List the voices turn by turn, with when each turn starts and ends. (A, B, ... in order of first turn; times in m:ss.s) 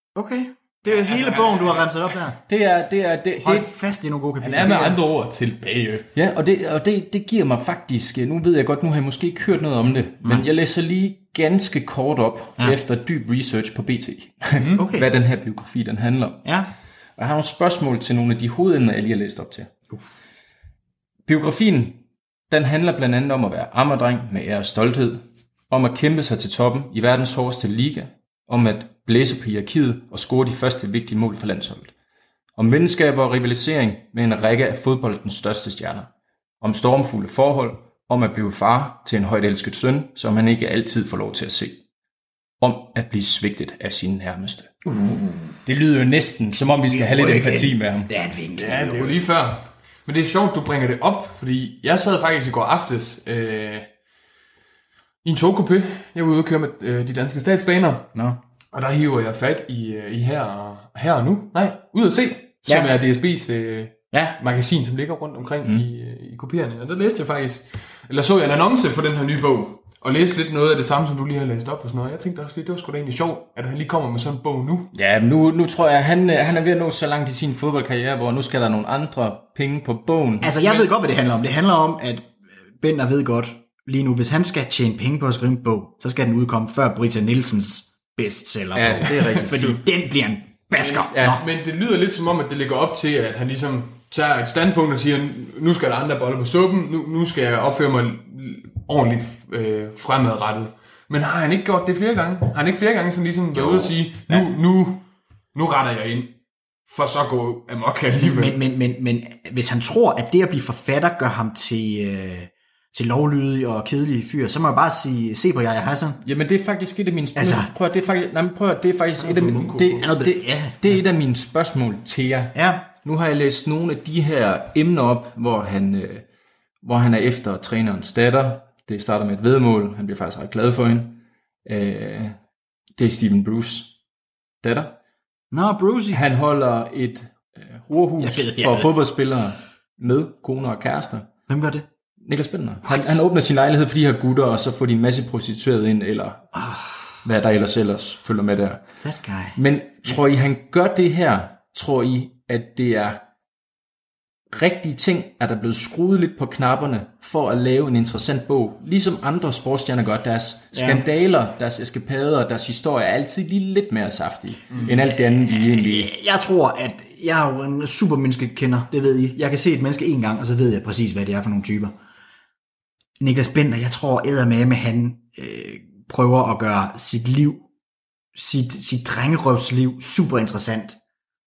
0:00.1-0:02.4 A
0:00.8-0:02.1 B
0:02.5-0:03.7 C
0:03.4-0:05.0 A
0:04.4-0:06.1 B
0:06.1-0:16.4 C
0:14.6-0:14.9 B
0:14.8-0:15.1 A
0:17.2-0:19.7 C
0:21.2-0:31.9 C
0:32.6-0:36.1 C
0:36.6-0:41.8 C
0:42.6-0:44.7 C
0:44.8-0:45.6 A
0:45.6-0:48.1 C
0:46.5-0:49.2 A
0:48.6-0:53.9 B
0:55.2-0:58.0 B
0:58.1-0:58.4 A
0:58.7-1:14.9 B
1:02.7-1:02.9 A
1:04.1-1:04.4 A
1:14.9-1:20.5 C
1:20.4-1:31.4 A
1:20.5-1:20.9 B
1:28.7-1:29.8 C
1:29.0-1:29.6 B
1:30.7-1:46.3 B
1:31.1-1:31.4 C
1:43.5-1:44.4 A
1:46.9-1:48.6 B
1:48.1-1:56.2 A
1:56.2-2:06.2 C
1:57.3-1:57.7 A
1:59.2-2:00.0 B
1:59.9-2:00.8 A
2:02.5-2:02.8 A
2:06.8-2:12.4 C
2:13.0-2:14.0 C
2:14.6-2:14.9 C
2:15.5-2:16.2 A
2:16.1-2:21.3 C
2:18.2-2:18.9 A
2:21.5-2:21.8 A
2:22.2-2:26.5 C
2:22.8-2:23.2 A
2:26.6-2:26.9 A
2:27.2-2:28.8 C
2:29.0-2:29.6 A
2:29.6-2:33.2 C
2:34.5-2:46.1 C
2:40.7-2:41.0 A
2:44.8-2:51.9 A
2:53.2-2:57.6 A
2:58.3-3:01.0 A